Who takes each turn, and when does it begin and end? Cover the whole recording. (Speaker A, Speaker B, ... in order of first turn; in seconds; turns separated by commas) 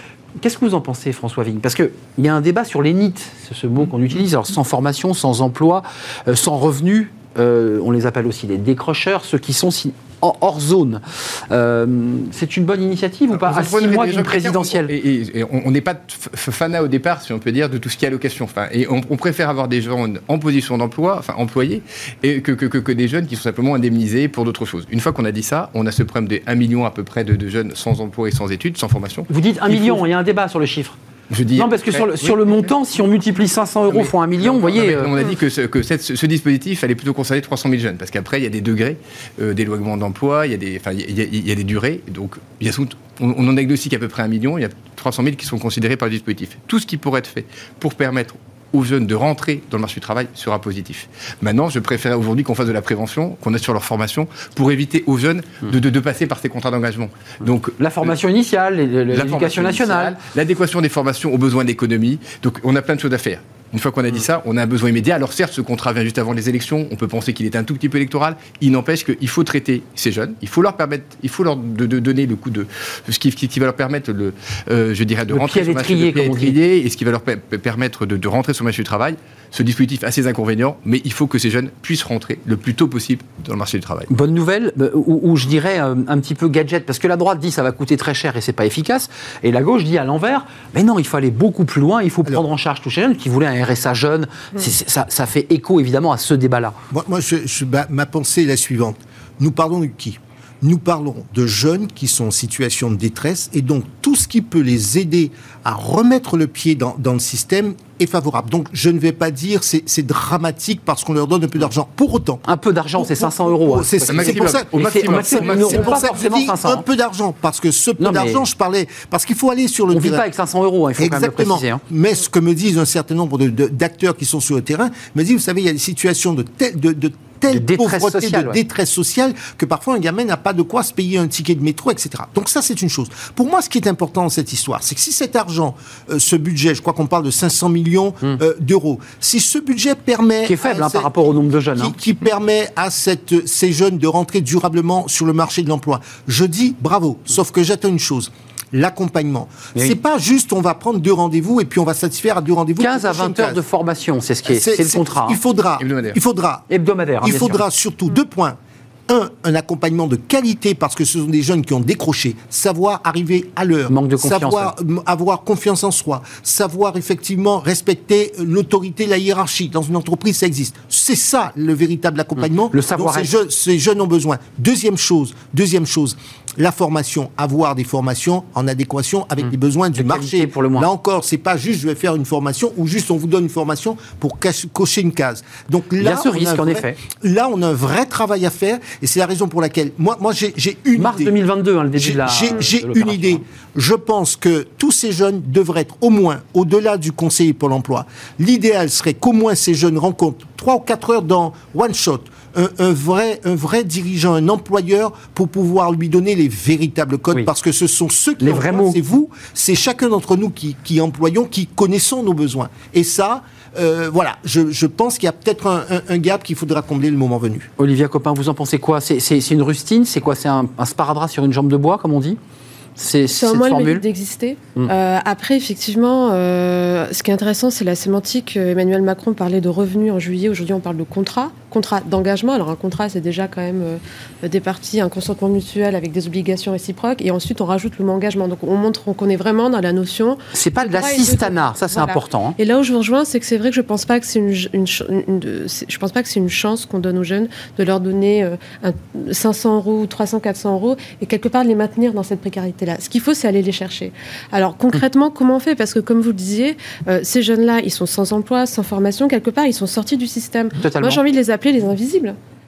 Speaker A: 0.4-14.9, Speaker B: 13.3-30.0, Speaker A: 29.3-31.0, Speaker B: 31.3-32.7, Speaker A: 31.6-35.1, Speaker B: 33.9-58.1, Speaker A: 57.8-60.2, Speaker B: 59.1-84.1, Speaker A: 75.3-76.6, Speaker A: 84.1-96.8, Speaker C: 96.9-112.4, Speaker A: 112.5-116.8, Speaker C: 113.0-120.3, Speaker B: 114.1-116.2, Speaker A: 118.0-118.5, Speaker A: 119.9-121.8, Speaker C: 121.0-141.1, Speaker A: 127.5-128.6, Speaker A: 140.4-141.9, Speaker C: 141.8-153.6, Speaker A: 152.8-155.4, Speaker C: 154.5-156.6, Speaker B: 155.8-156.2, Speaker A: 156.7-157.6, Speaker C: 157.2-191.4, Speaker A: 163.9-164.7, Speaker A: 172.7-173.3, Speaker A: 179.9-180.9, Speaker A: 186.0-187.0, Speaker A: 191.0-193.4, Speaker C: 192.0-217.7, Speaker A: 208.4-209.0, Speaker A: 217.8-222.4, Speaker A: 223.0-224.1, Speaker D: 223.3-262.4, Speaker A: 240.5-242.6, Speaker A: 260.8-261.2